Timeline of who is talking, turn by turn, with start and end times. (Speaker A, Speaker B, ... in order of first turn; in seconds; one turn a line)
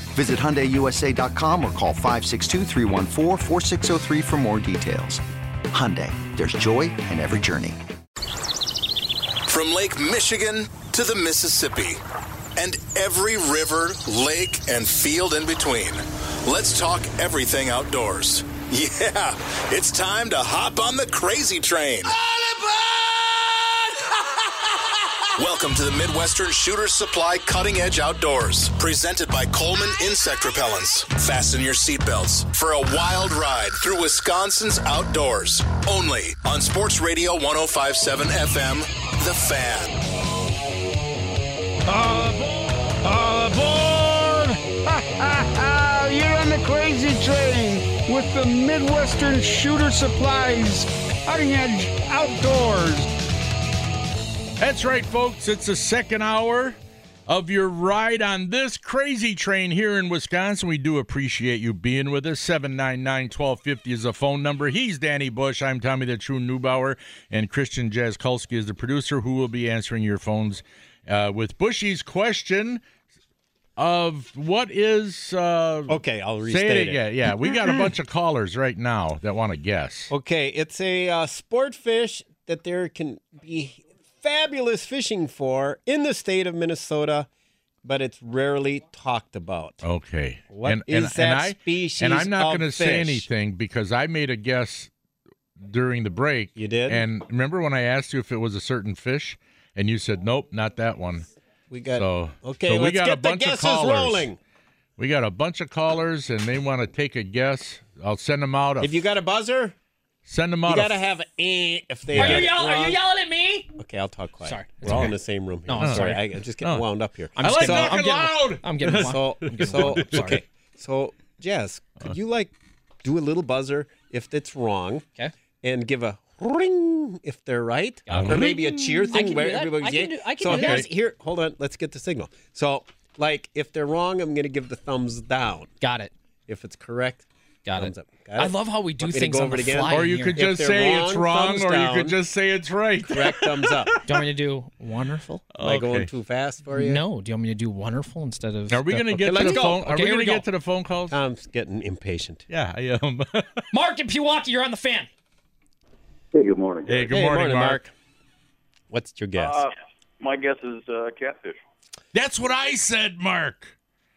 Speaker A: 0.1-7.8
Speaker B: 9.5-12.0
Speaker B: 12.6-22.1
Speaker B: 25.4-40.0
Speaker C: 41.9-53.1
Speaker D: 54.6-56.8
Speaker D: 57.3-72.8
Speaker D: 73.8-80.1
Speaker E: 75.9-77.0
Speaker E: 80.1-87.3
Speaker E: 87.8-89.8
Speaker D: 89.8-94.9
Speaker E: 90.5-93.3
Speaker D: 95.6-101.3
Speaker E: 96.6-97.1
Speaker E: 101.7-104.4
Speaker D: 102.0-104.3
Speaker D: 105.0-109.0
Speaker E: 108.8-109.8
Speaker D: 110.3-111.0
Speaker E: 110.7-113.0
Speaker D: 112.2-112.5
Speaker F: 112.2-113.7
Speaker E: 113.8-118.0
Speaker F: 114.4-115.1
Speaker D: 114.9-115.1
Speaker F: 115.7-116.2
Speaker D: 115.8-116.1
Speaker F: 117.4-120.4
Speaker D: 117.4-120.4
Speaker E: 118.8-125.0
Speaker E: 125.6-135.7
Speaker F: 128.1-128.5
Speaker D: 128.1-129.2
Speaker F: 129.1-130.8
Speaker D: 130.4-130.9
Speaker F: 135.8-136.1
Speaker E: 136.5-142.2
Speaker F: 137.7-140.4
Speaker D: 139.9-144.0
Speaker E: 143.1-144.0
Speaker F: 144.0-145.4
Speaker D: 145.5-146.1
Speaker E: 145.6-147.0
Speaker F: 146.8-150.4
Speaker D: 148.7-151.2
Speaker E: 149.2-149.8
Speaker E: 151.1-152.5
Speaker D: 152.5-153.7
Speaker F: 153.7-155.1
Speaker G: 156.3-156.9
Speaker D: 156.9-157.8
Speaker E: 157.1-157.9
Speaker E: 158.9-159.7
Speaker G: 159.4-159.7
Speaker G: 160.2-161.6
Speaker D: 162.1-163.7